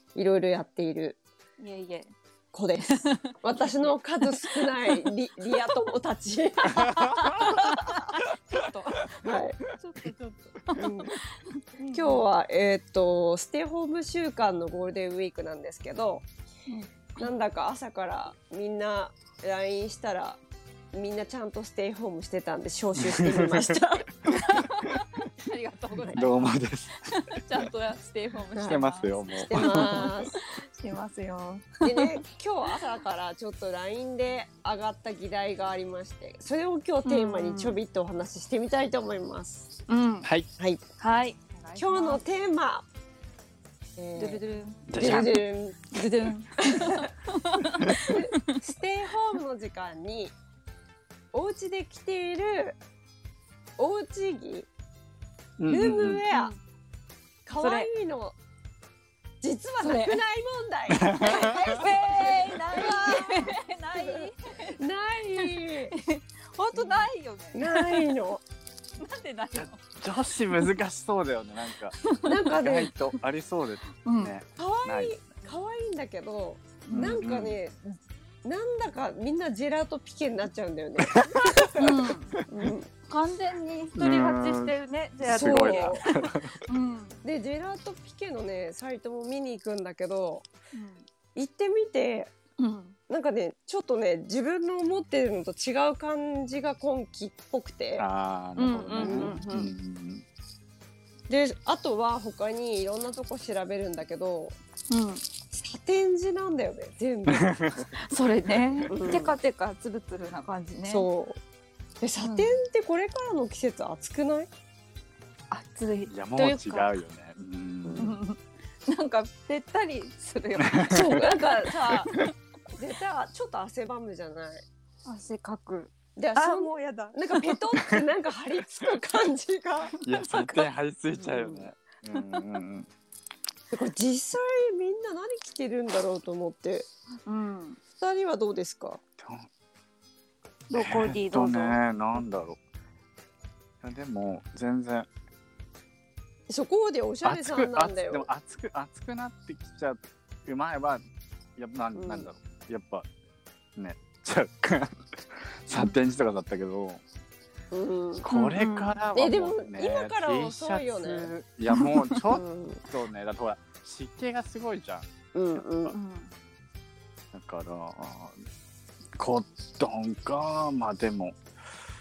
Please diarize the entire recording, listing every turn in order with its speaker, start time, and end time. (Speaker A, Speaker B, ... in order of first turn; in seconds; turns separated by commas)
Speaker A: 0.1-1.2, Speaker B: 1.6-2.1, Speaker A: 2.5-7.6, Speaker B: 2.8-3.3, Speaker B: 4.5-5.0, Speaker C: 6.8-7.6, Speaker B: 7.0-11.1, Speaker A: 9.2-9.6, Speaker A: 10.8-11.2, Speaker B: 11.8-12.2, Speaker A: 11.9-16.2, Speaker B: 16.7-17.3, Speaker A: 17.2-20.4, Speaker A: 20.9-24.1, Speaker C: 23.0-23.8, Speaker B: 24.3-26.4, Speaker C: 26.1-27.2, Speaker B: 27.1-32.1, Speaker A: 28.5-28.8, Speaker C: 28.7-30.2, Speaker A: 29.4-30.4, Speaker A: 31.8-39.7, Speaker B: 37.0-37.8, Speaker B: 39.9-40.3, Speaker C: 40.2-40.5, Speaker B: 41.0-42.2, Speaker A: 41.8-42.9, Speaker A: 44.0-44.4, Speaker B: 44.2-45.4, Speaker C: 44.9-45.3, Speaker A: 45.0-47.0, Speaker B: 45.9-48.2, Speaker A: 47.9-50.3, Speaker A: 51.3-52.8, Speaker A: 53.8-54.7, Speaker C: 55.6-56.2, Speaker A: 55.7-56.5, Speaker B: 56.3-56.6, Speaker A: 57.5-58.4, Speaker B: 57.6-57.9, Speaker A: 59.4-65.9, Speaker B: 59.8-60.2, Speaker C: 61.0-61.8, Speaker B: 61.3-64.8, Speaker B: 65.4-68.2, Speaker A: 66.7-68.4, Speaker B: 69.0-70.0, Speaker C: 69.5-75.2, Speaker B: 72.0-72.5, Speaker A: 72.2-72.9, Speaker B: 74.0-74.3, Speaker A: 74.5-81.8, Speaker B: 76.9-77.2, Speaker C: 76.9-77.6, Speaker C: 81.1-81.9, Speaker B: 81.8-82.4, Speaker A: 82.5-82.9, Speaker B: 83.1-86.0, Speaker C: 84.0-86.6, Speaker A: 85.3-86.0, Speaker B: 86.7-87.2, Speaker A: 87.2-90.5, Speaker B: 90.7-91.0, Speaker A: 91.3-92.3, Speaker B: 92.6-93.0, Speaker A: 93.1-98.0, Speaker C: 98.0-100.2, Speaker B: 98.5-99.7, Speaker A: 99.0-99.4, Speaker A: 101.3-104.5, Speaker B: 104.9-105.2, Speaker A: 105.5-107.5, Speaker C: 107.3-107.9, Speaker B: 108.0-111.0, Speaker A: 108.9-109.3, Speaker A: 110.8-111.4, Speaker A: 112.0-114.5, Speaker B: 112.2-112.6, Speaker B: 115.5-116.9, Speaker C: 116.1-118.2, Speaker A: 117.8-118.1, Speaker B: 118.0-121.5, Speaker C: 120.6-121.2, Speaker A: 120.9-122.1, Speaker A: 122.8-124.6, Speaker B: 125.0-127.6, Speaker A: 126.2-130.0, Speaker C: 130.0-132.9, Speaker B: 130.1-130.6, Speaker A: 131.2-131.7, Speaker B: 132.1-132.4, Speaker A: 133.7-136.9, Speaker B: 137.2-137.8, Speaker A: 138.0-139.0, Speaker C: 139.2-139.5, Speaker B: 140.7-141.8, Speaker C: 140.8-142.6, Speaker C: 143.8-145.1, Speaker A: 146.5-148.3, Speaker C: 147.2-151.0, Speaker C: 151.6-153.1, Speaker A: 151.9-152.3, Speaker C: 153.8-157.0, Speaker A: 157.7-158.2, Speaker C: 158.2-165.1, Speaker B: 158.3-159.0, Speaker A: 159.1-161.3, Speaker B: 161.8-162.2, Speaker A: 162.3-162.8, Speaker A: 165.3-165.9, Speaker B: 165.9-166.3, Speaker C: 167.3-168.4, Speaker C: 169.2-171.4